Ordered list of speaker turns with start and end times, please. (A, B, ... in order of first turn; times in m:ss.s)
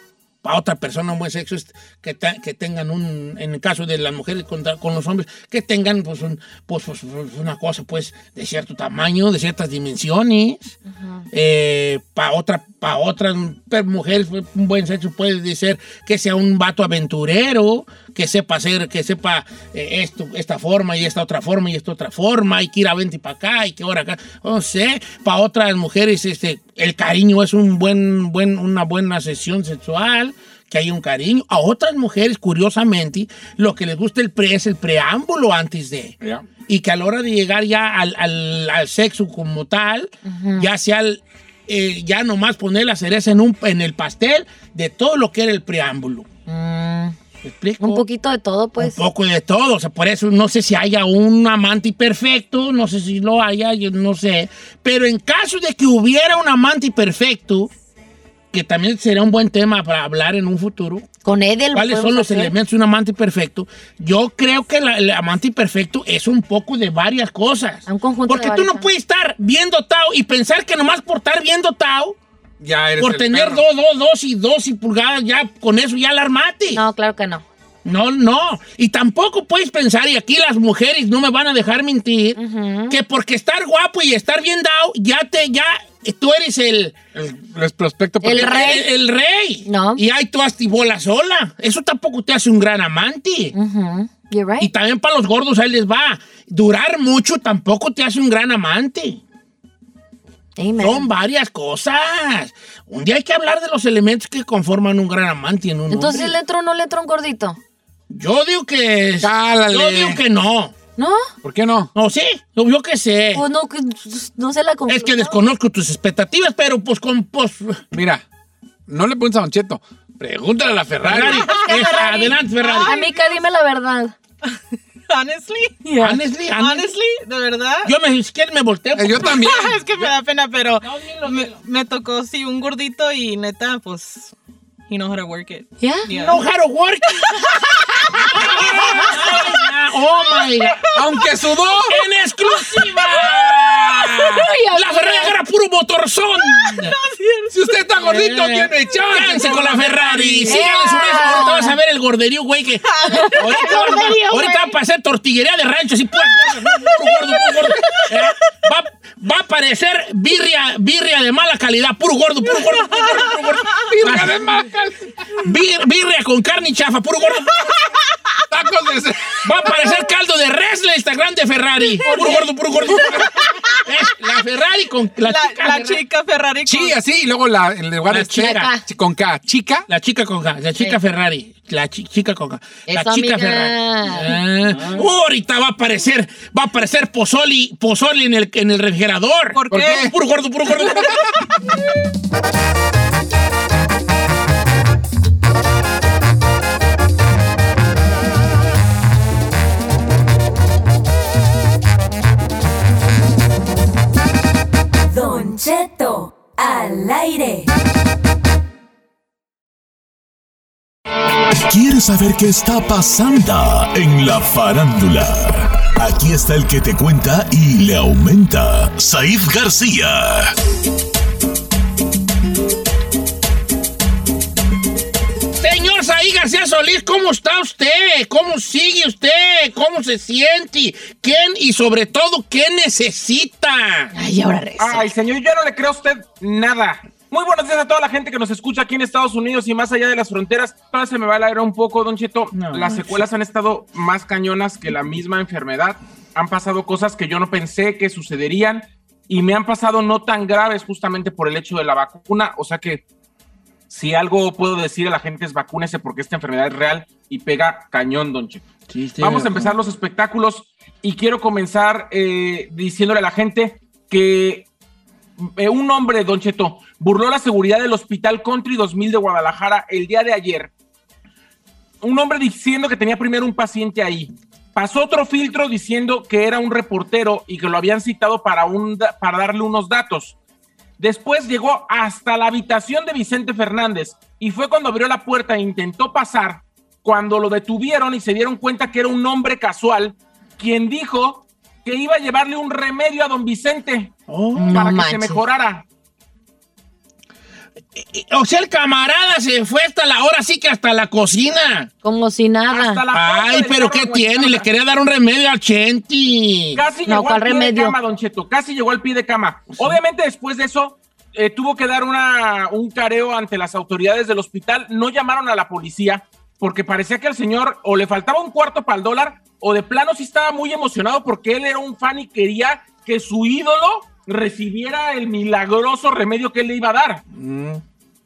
0:00.4-0:10.8 A
0:10.9-0:11.3 B
0:11.3-0:36.2 A
0:36.7-0:46.3 A
0:40.2-0:40.7 B
0:46.5-0:47.2 B
0:47.4-0:48.0 A
0:47.8-0:49.0 B
0:48.8-0:57.7 A
0:58.5-1:01.1 A
1:01.2-1:02.5 B
1:01.7-1:12.2 A
1:07.9-1:08.9 B
1:12.6-1:13.6 C
1:13.0-1:16.8 A
1:16.7-1:17.4 B
1:17.8-1:22.4 A
1:22.4-1:23.0 B
1:22.9-1:27.0 A
1:27.2-1:28.7 C
1:28.2-1:28.9 B
1:28.3-1:33.5 A
1:29.7-1:30.0 B
1:33.5-1:34.7 B
1:34.6-1:39.2 A
1:40.6-1:41.1 B
1:40.8-1:46.4 A
1:45.9-1:47.6 B
1:48.1-1:50.7 A
1:49.2-1:50.2 C
1:51.0-1:51.3 B
1:51.4-1:51.9 C
1:52.0-1:53.4 A
1:53.4-1:55.4 B
1:54.9-1:57.8 A
1:57.9-1:58.2 C
1:58.9-2:01.4 C
2:01.0-2:03.0 A
2:01.2-2:03.4 D
2:01.6-2:04.1 B
2:05.1-2:05.8 D
2:05.8-2:06.2 B
2:06.0-2:06.9 A
2:06.6-2:07.9 D
2:07.8-2:09.4 A
2:09.0-2:09.8 C
2:09.3-2:14.4 D
2:10.8-2:11.6 A
2:14.9-2:16.4 D
2:15.8-2:16.1 B
2:16.1-2:17.6 A
2:17.3-2:21.7 D
2:18.3-2:20.9 A
2:20.9-2:22.0 C
2:21.9-2:26.9 A
2:22.5-2:23.9 D
2:24.1-2:25.4 B
2:26.4-2:28.1 D
2:27.5-2:30.5 C
2:28.0-2:44.4 A
2:30.5-2:31.8 B
2:30.9-2:31.4 D
2:32.9-2:34.5 D
2:33.1-2:34.7 B
2:36.5-2:38.2 D
2:42.5-2:43.6 D
2:43.9-2:45.1 C
2:45.4-2:47.6 A
2:48.5-2:49.4 C
2:49.4-2:53.3 A
2:51.9-2:53.8 D
2:53.8-2:56.0 A
2:55.2-2:57.0 D
2:56.6-2:59.9 C
2:58.1-2:58.7 A
2:58.4-2:58.8 B
2:59.9-3:11.2 A
3:02.9-3:04.3 B
3:09.5-3:10.1 D
3:09.7-3:10.1 C
3:25.1-3:27.7 E
3:31.6-3:40.5 F
3:45.6-3:54.1 A
3:54.1-3:55.1 B
3:54.8-4:13.0 G
4:02.5-4:03.2 A
4:13.9-4:18.6 G
4:18.9-4:19.8 A
4:19.2-4:24.7 G
4:25.4-4:30.7 G
4:32.0-4:40.4 G
4:41.0-4:54.1 G
4:54.3-4:54.8 A
4:54.6-4:55.4 B
4:54.7-4:55.8 G
4:57.9-5:01.9 A
5:02.0-5:03.0 B
5:02.7-5:04.7 G
5:03.1-5:06.8 A
5:06.8-5:27.2 G
5:07.1-5:08.0 B
5:27.3-5:27.8 A